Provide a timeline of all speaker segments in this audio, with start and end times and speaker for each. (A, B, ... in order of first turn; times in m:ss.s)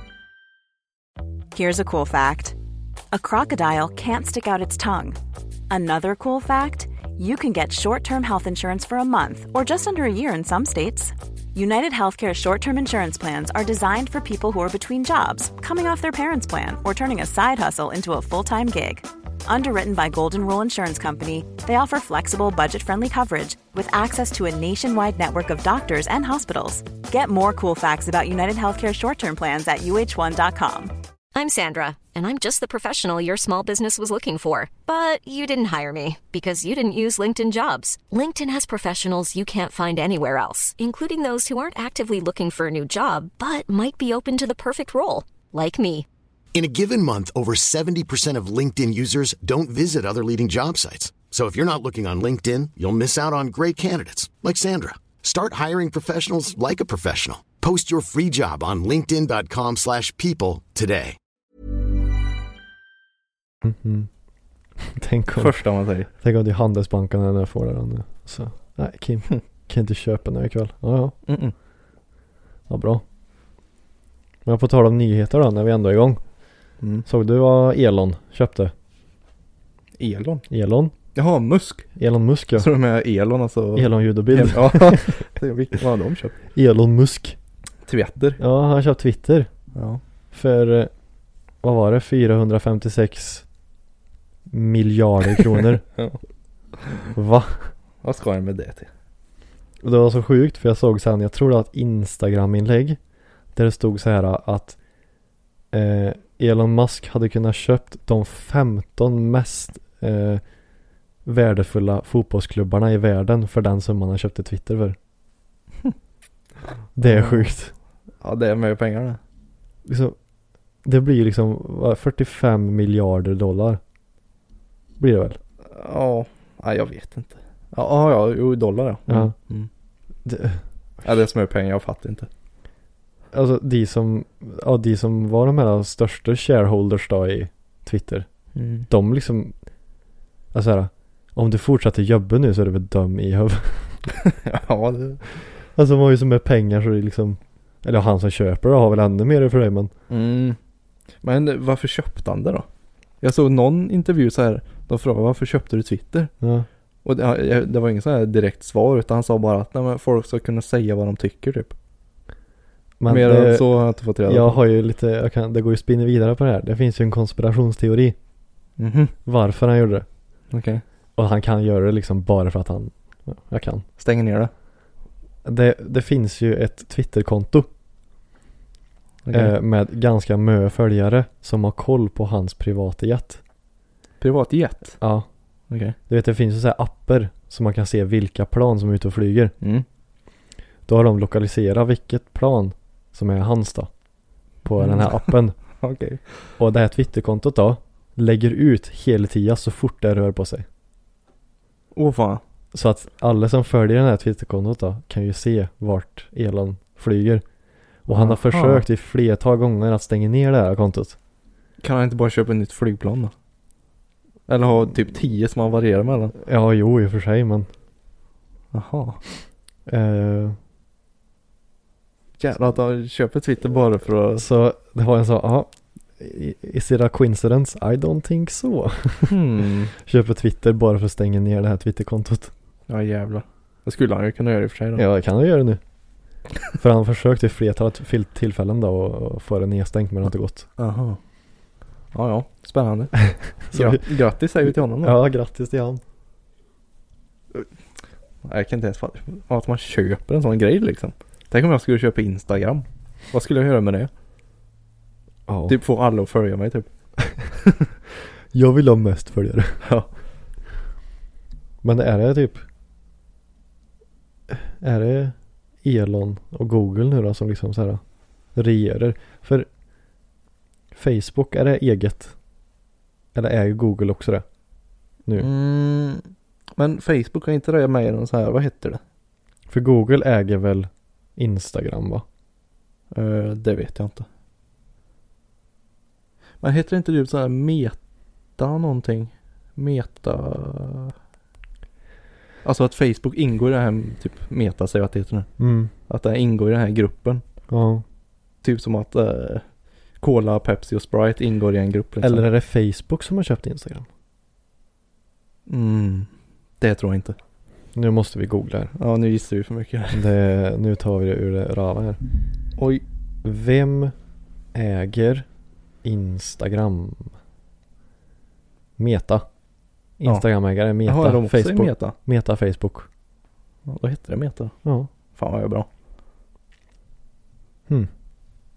0:01.5-0:02.5 A
0:03.1-0:05.2 A
0:05.7-0:30.9 A
0:31.3-0:46.0 B
0:46.5-1:01.2 C
1:03.6-1:04.1 D
1:04.8-1:05.6 D
1:05.4-1:06.1 E
1:06.2-1:11.2 D
1:11.3-1:11.5 E
1:12.7-1:13.0 D
1:14.4-1:16.2 D
1:16.8-1:17.0 E
1:17.0-1:18.7 D
1:20.0-1:20.4 E
1:20.5-1:20.9 D
1:21.1-1:21.9 E
1:22.0-1:22.7 D
1:22.6-1:26.4 E
1:23.7-1:25.1 D
1:26.5-1:27.4 D
1:27.8-1:28.4 E
1:28.4-1:29.5 D
1:29.7-1:30.0 E
1:30.3-1:30.9 D
1:31.6-1:33.4 D
1:34.5-1:35.8 D
1:37.1-1:37.7 D
1:38.0-1:38.9 E
1:39.8-1:43.0 D
1:43.5-1:44.8 D
1:45.7-1:50.4 D
1:51.2-1:55.0 D
1:57.0-1:57.7 D
1:57.0-1:57.5 E
1:58.2-1:59.2 E
1:59.8-2:00.2 D
2:00.8-2:03.8 D
2:05.0-2:05.4 D
2:05.6-2:09.7 E
2:09.1-2:09.3 D
2:10.2-2:11.2 D
2:11.0-2:12.3 E
2:13.3-2:18.3 D
2:18.5-2:18.9 E
2:18.9-2:19.5 D
2:20.5-2:24.1 D
2:24.3-2:25.2 E
2:25.7-2:29.9 D
2:30.1-2:30.6 E
2:31.2-2:32.6 E
2:33.2-2:36.3 E
2:36.4-2:36.7 D
2:37.0-2:41.7 E
2:43.0-2:43.7 D
2:43.1-2:44.6 E
2:44.2-2:48.2 D
2:48.8-2:49.1 E
2:49.2-2:50.0 D
2:50.5-2:50.8 E
2:51.2-2:53.8 D
2:54.0-2:54.5 E
2:55.4-2:57.7 D
2:59.2-2:59.5 E
2:59.3-3:03.4 D
3:04.2-3:05.0 E
3:05.0-3:05.3 D
3:05.7-3:06.0 E
3:06.1-3:09.5 D
3:10.9-3:13.9 D
3:14.6-3:15.6 D
3:14.8-3:16.3 E
3:16.6-3:20.6 D
3:21.9-3:22.4 E
3:22.7-3:27.4 D
3:28.0-3:31.2 D
3:28.1-3:28.8 E
3:31.8-3:33.3 E
3:34.5-3:36.3 E
3:36.4-3:37.7 D
3:38.7-3:39.2 E
3:39.8-3:40.6 D
3:42.4-3:44.4 E
3:44.4-3:49.4 D
3:49.3-3:49.9 E
3:50.0-3:52.5 D
3:52.9-3:55.0 E
3:55.0-3:55.8 D
3:56.7-4:00.6 D
4:00.8-4:01.2 E
4:02.1-4:05.2 E
4:03.7-4:04.0 D
4:05.0-4:06.0 D
4:08.4-4:14.1 E
4:15.5-4:15.8 D
4:15.7-4:16.9 E
4:18.5-4:19.8 D
4:19.8-4:20.1 E
4:21.8-4:22.6 D
4:24.5-4:28.0 D
4:28.5-4:29.7 D
4:30.9-4:32.3 D
4:33.3-4:34.4 D
4:35.4-4:39.0 E
4:39.7-4:42.2 D
4:43.1-4:44.3 E
4:46.6-4:48.0 E
4:48.6-4:51.1 E
4:52.6-4:55.5 E
4:55.6-4:55.9 D
4:56.1-4:57.4 E
4:57.7-4:58.0 D
4:58.6-4:59.6 E
5:00.2-5:02.4 E
5:02.2-5:04.1 D
5:05.7-5:06.3 E
5:06.8-5:07.4 E
5:07.9-5:08.9 D
5:09.0-5:10.2 E
5:10.1-5:12.2 D
5:12.8-5:13.0 E
5:13.4-5:14.1 D
5:14.7-5:15.4 D
5:16.0-5:17.3 D
5:19.0-5:19.4 D
5:20.2-5:23.1 D
5:21.0-5:22.1 E
5:23.9-5:24.7 E
5:24.8-5:25.1 D
5:25.3-5:25.9 E